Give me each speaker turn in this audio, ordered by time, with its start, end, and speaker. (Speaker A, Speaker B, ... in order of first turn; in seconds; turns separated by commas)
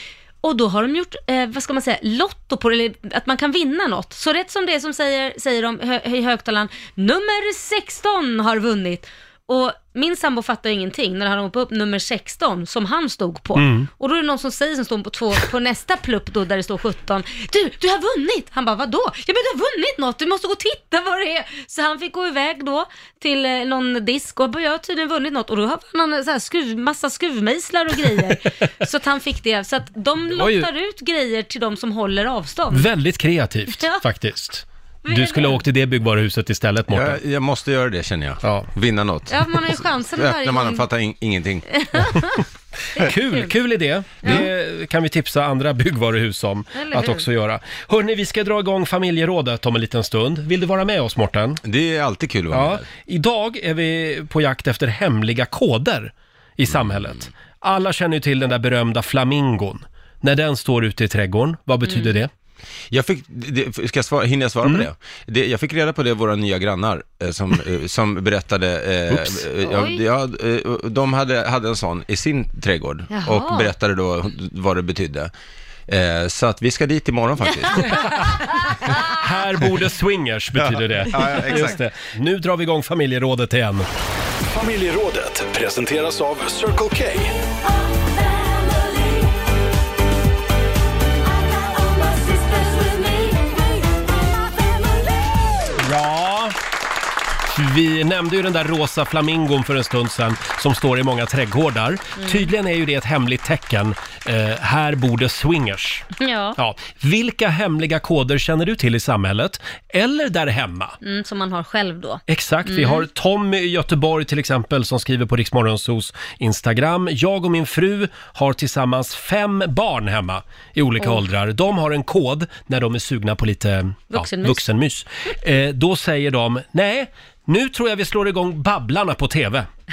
Speaker A: 0.4-32.9, Speaker B: 13.6-13.9, Speaker B: 30.4-30.7, Speaker B: 32.7-37.2, Speaker A: 33.7-34.0, Speaker A: 35.1-35.6, Speaker C: 36.9-41.7, Speaker A: 39.3-40.9, Speaker A: 41.8-42.4, Speaker A: 43.0-43.5, Speaker B: 43.0-51.6, Speaker A: 44.2-44.5, Speaker A: 46.8-47.2, Speaker C: 51.6-52.9, Speaker B: 52.5-62.3, Speaker C: 56.7-57.2, Speaker A: 61.9-62.1, Speaker C: 62.9-75.3, Speaker B: 69.1-69.4, Speaker A: 69.7-70.0, Speaker A: 73.1-73.7, Speaker C: 75.9-78.1, Speaker B: 78.0-78.2, Speaker B: 79.1-83.9, Speaker C: 80.6-81.8, Speaker D: 84.5-87.4, Speaker A: 91.9-93.4, Speaker B: 95.8-96.6, Speaker B: 97.5-111.0, Speaker A: 102.2-102.5, Speaker A: 106.2-106.6, Speaker A: 111.0-113.1, Speaker B: 112.3-129.7, Speaker A: 124.1-124.7